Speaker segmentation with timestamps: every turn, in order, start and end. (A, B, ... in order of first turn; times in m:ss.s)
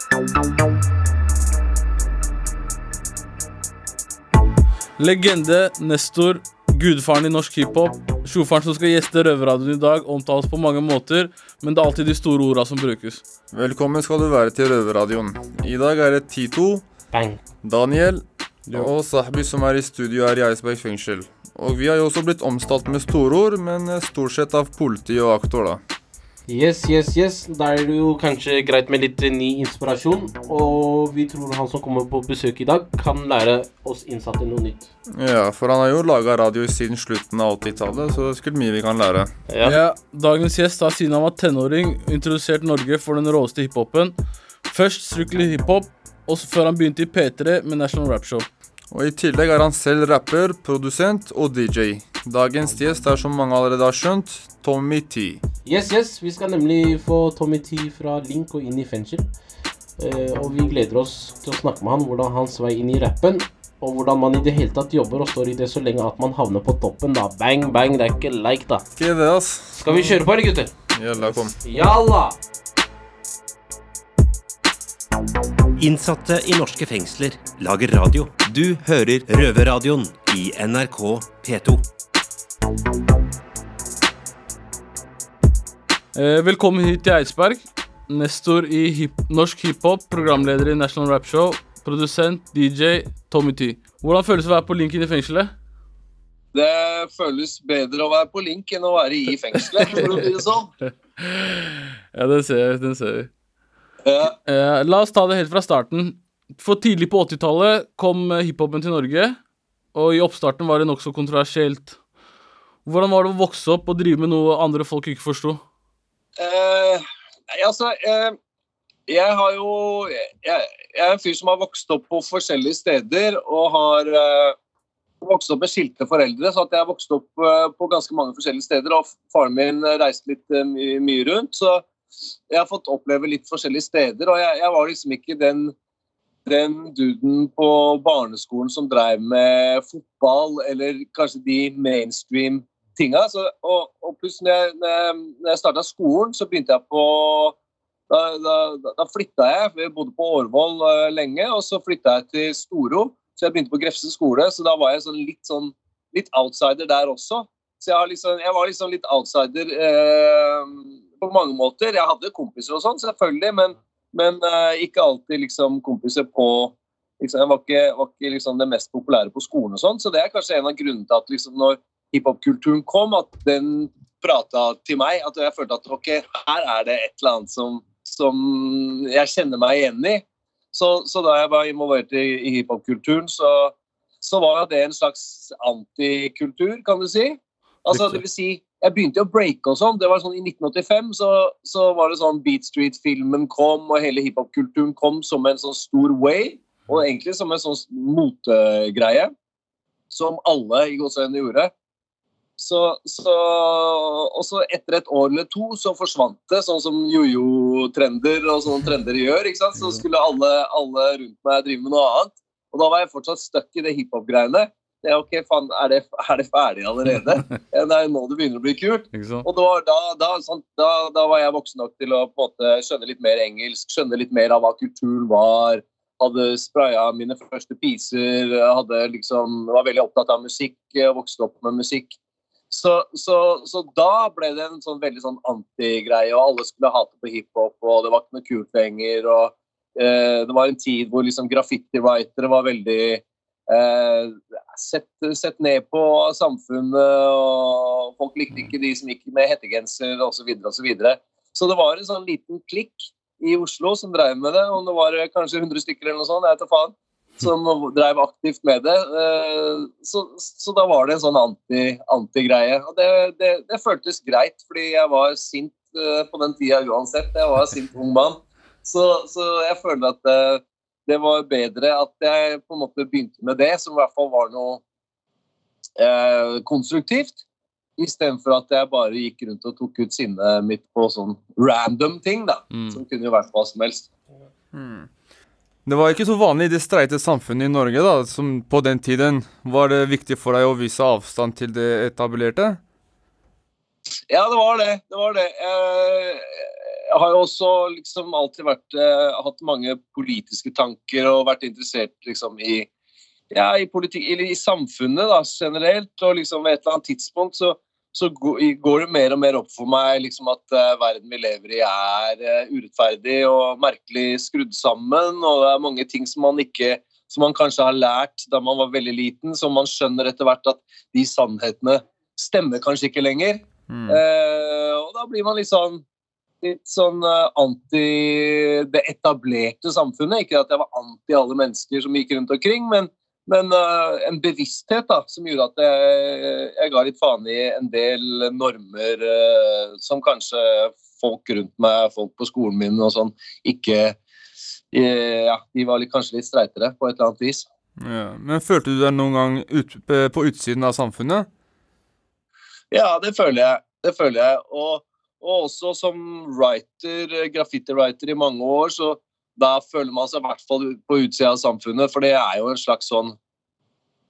0:05.0-0:13.2 A
0:13.5-0:16.8 B
0:17.1-0:17.4 C
0:17.6-0:25.8 B
0:26.5-0:34.9 C
0:35.1-0:39.3 B
0:39.5-0:39.8 C
0:39.6-0:44.2 A
0:44.7-0:48.5 A
0:48.9-0:55.4 B
0:55.7-0:59.3 C
1:00.0-1:08.8 C
1:09.0-1:10.2 B
1:09.8-1:10.7 C
1:10.9-1:11.6 B
1:11.2-1:12.4 C
1:15.8-1:21.8 D
1:26.1-1:35.5 A
1:36.5-1:40.7 E
1:39.8-1:40.2 A
1:41.2-1:43.3 A
1:44.0-1:44.3 E
1:44.5-1:49.4 A
1:49.9-1:52.0 A
1:52.9-1:55.6 A
1:56.4-1:58.4 E
1:59.1-2:04.6 E
2:05.2-2:11.9 E
2:12.5-2:15.7 E
2:16.5-2:27.6 E
2:28.1-3:19.3 E
3:07.9-3:08.2 A
3:20.1-3:21.7 E
3:22.6-3:52.2 E
3:39.1-3:39.5 A
3:52.7-4:34.8 E
4:36.0-4:37.4 E
4:38.0-4:44.1 E
4:42.7-4:43.0 A
4:44.7-4:45.1 B
4:45.9-4:52.8 B
4:54.3-4:56.5 E
4:57.1-5:02.9 E
5:03.5-5:26.0 E
5:23.9-5:24.2 B
5:26.6-5:44.2 E
5:44.9-5:47.7 E
5:48.0-5:51.5 B
5:52.9-6:03.4 E